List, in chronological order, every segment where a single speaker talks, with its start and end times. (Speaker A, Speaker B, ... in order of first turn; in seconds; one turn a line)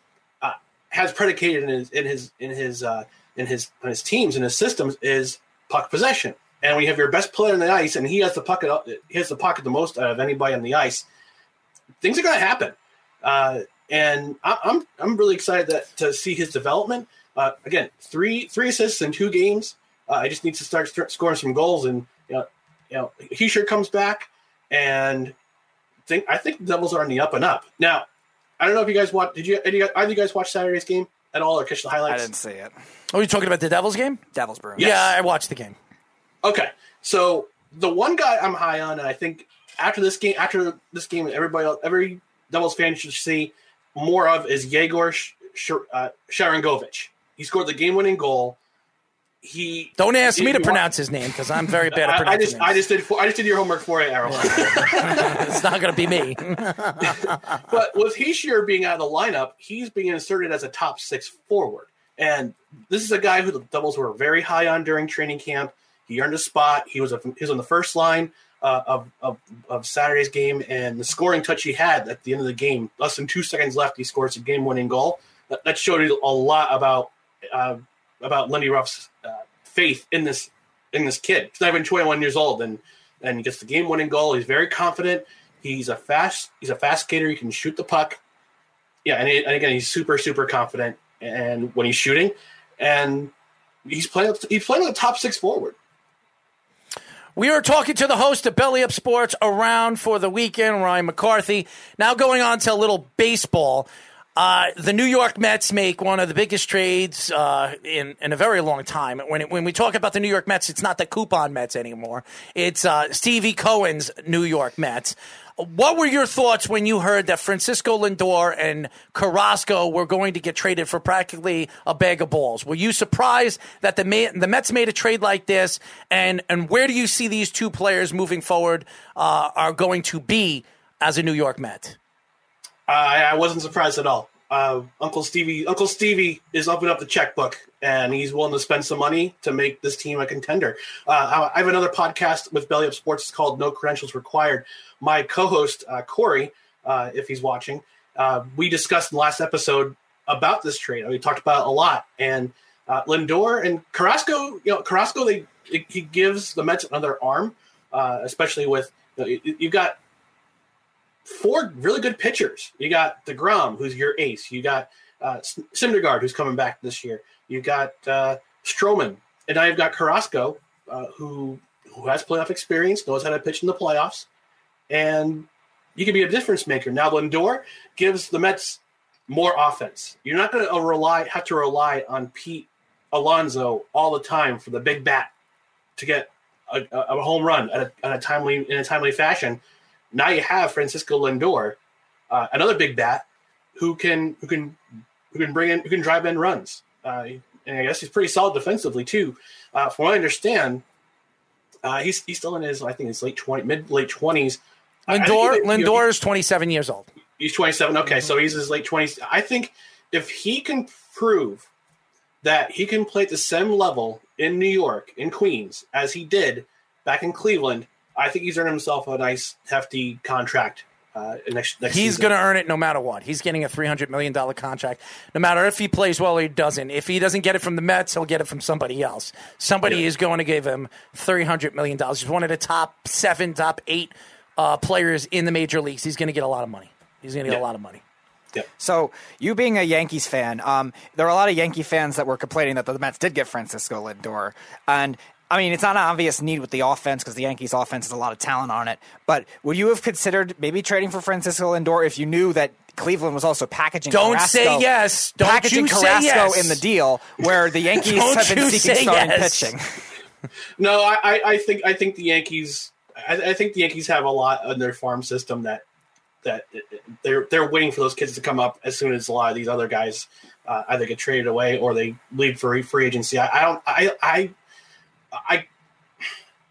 Speaker A: 0.4-11.1
Speaker A: 12.0-25.3
Speaker A: 26.1-28.1
Speaker A: 28.6-32.3
Speaker B: 32.1-32.7
Speaker C: 33.1-34.2
Speaker B: 34.3-35.0
Speaker A: 34.8-35.2
Speaker C: 34.8-35.8
Speaker A: 36.4-48.6
Speaker A: 49.4-50.8
Speaker C: 50.0-52.8
Speaker A: 51.9-55.6
Speaker C: 54.3-57.4
Speaker A: 57.7-88.2
Speaker A: 89.0-93.3
Speaker A: 93.9-95.8
Speaker C: 97.4-132.0
Speaker A: 132.9-160.0
Speaker A: 161.3-174.3
Speaker A: 174.9-185.3
Speaker A: 186.0-189.6
Speaker A: 190.1-191.8
Speaker A: 192.3-194.8
Speaker A: 195.3-200.8
Speaker A: 201.8-206.1
Speaker C: 205.1-207.1
Speaker A: 207.4-211.7
Speaker A: 212.4-222.3
Speaker C: 221.9-238.0
Speaker B: 238.8-260.0
Speaker C: 254.1-256.8
Speaker C: 258.0-259.7
Speaker A: 260.8-265.8
Speaker A: 266.4-274.5
Speaker A: 275.3-275.7